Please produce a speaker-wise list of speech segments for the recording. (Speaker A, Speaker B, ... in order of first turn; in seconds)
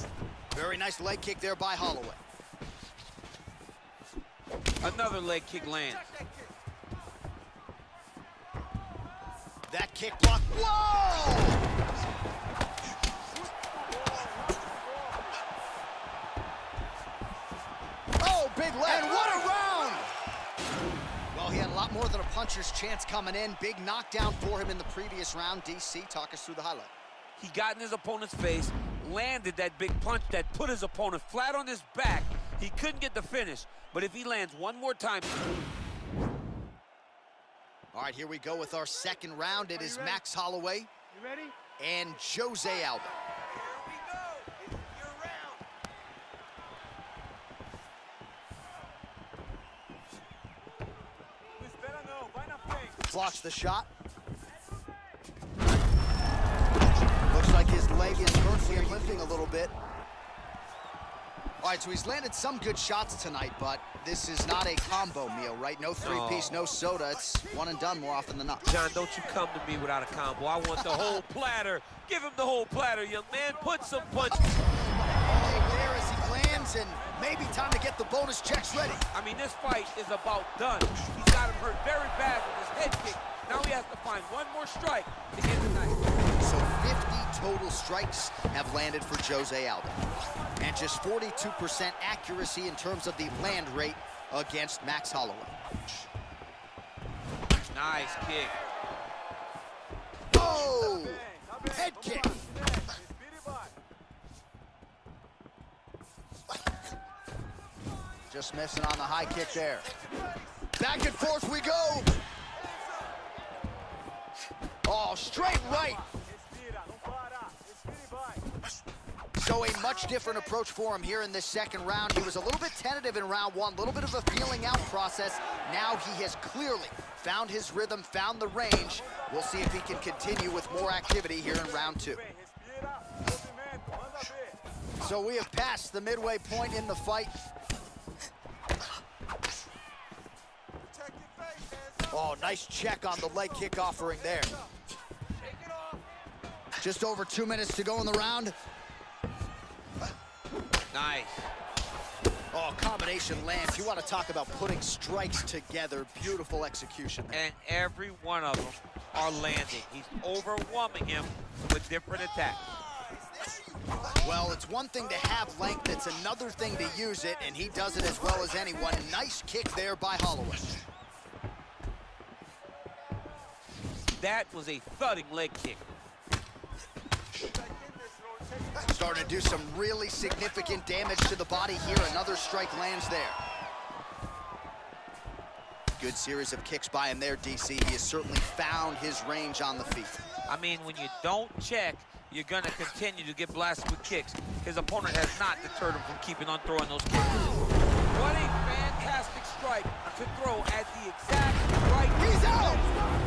Speaker A: 0.5-2.2, 9.7-11.6, 18.2-20.1, 21.3-26.9, 37.9-40.9, 41.8-43.1, 53.0-53.9, 57.3-59.7, 61.6-68.7, 75.1-79.0, 86.4-90.0, 90.6-95.5, 100.3-102.4, 108.3-109.8, 110.8-112.1, 114.8-116.1, 119.4-132.2, 135.0-137.3, 142.1-144.6, 146.8-148.5, 152.5-157.4, 164.1-170.7, 178.8-183.4, 186.0-190.2, 202.2-202.9
Speaker B: 4.8-6.1, 27.4-35.3, 45.1-45.4, 66.0-66.6, 68.6-74.5, 79.1-86.0, 97.7-98.6, 150.9-151.5, 157.3-162.6, 174.2-175.9, 190.4-202.9
Speaker C: 51.7-52.8, 132.5-134.3